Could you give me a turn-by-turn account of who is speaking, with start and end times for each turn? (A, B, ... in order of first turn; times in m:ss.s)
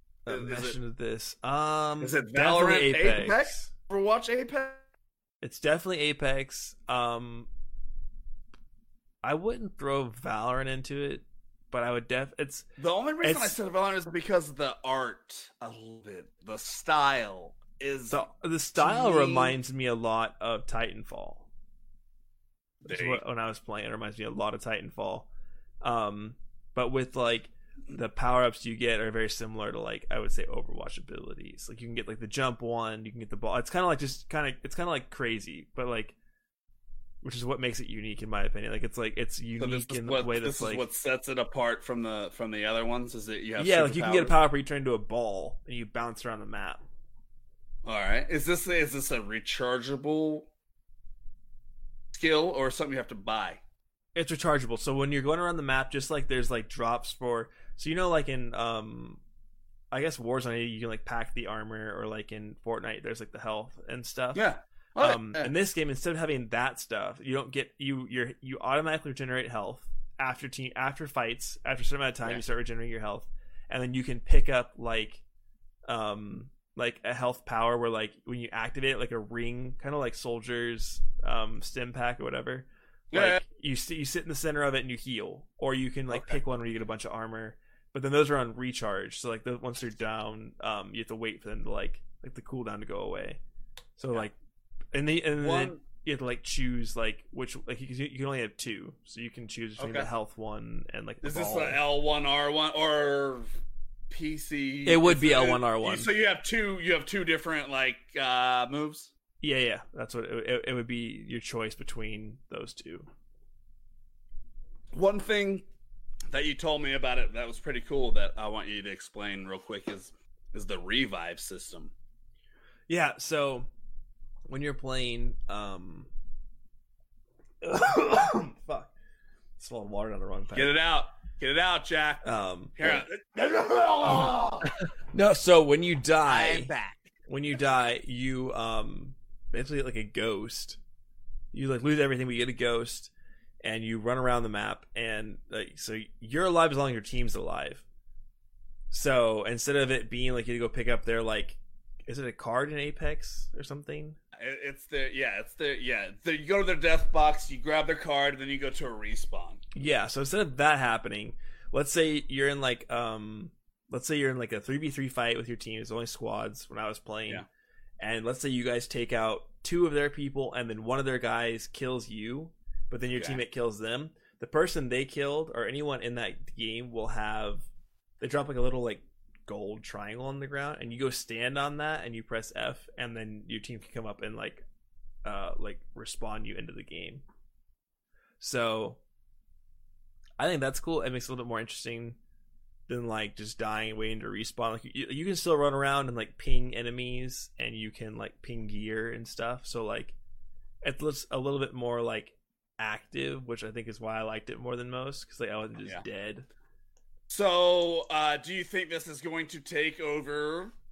0:00.3-0:00.8 A
0:00.3-0:03.7 B
0:02.0-0:04.8 A
0:05.4-0:07.5 B
0:09.2-0:12.7 B
0:12.8-0:19.6 A
0:13.2-0:13.5 B
0:18.1-0:21.5 B
0:22.8-0:23.2 A
0:22.8-0:25.3 B
0:25.8-0:36.2 B
0:37.2-0:40.8 B
0:39.6-0:44.4 A
0:43.6-0:46.8 B
0:47.8-0:50.5 A
0:52.1-0:53.6 A
0:54.2-0:59.2 B
0:59.9-1:04.5 B
1:04.4-1:05.5 A
1:05.0-1:15.2 B
1:15.9-1:33.4 B
1:23.1-1:23.4 A
1:26.1-1:26.4 A
1:34.0-1:34.4 B
1:34.9-1:41.8 B
1:35.4-1:35.8 A
1:39.8-1:40.1 A
1:41.2-1:43.6 A
1:44.1-1:49.1 A
1:44.9-1:46.1 B
1:49.4-1:53.1 B
1:54.9-1:55.6 A
1:56.3-2:01.9 A
2:02.9-2:03.7 B
2:04.5-2:06.1 B
2:07.6-2:08.9 B
2:09.6-2:10.8 B
2:10.5-2:14.7 A
2:12.2-2:13.0 B
2:15.1-2:16.7 B
2:16.2-2:17.1 A
2:17.3-2:20.8 B
2:21.5-2:23.1 B
2:23.6-2:27.8 B
2:28.9-2:34.2 B
2:34.4-2:39.6 A
2:39.8-2:47.4 B
2:48.0-2:57.7 B
2:53.1-2:53.4 A
2:58.2-3:04.6 B
3:05.2-3:07.2 B
3:08.4-3:09.0 B
3:10.4-3:12.2 B
3:12.9-3:20.2 B
3:20.8-3:26.5 B
3:27.3-3:30.7 A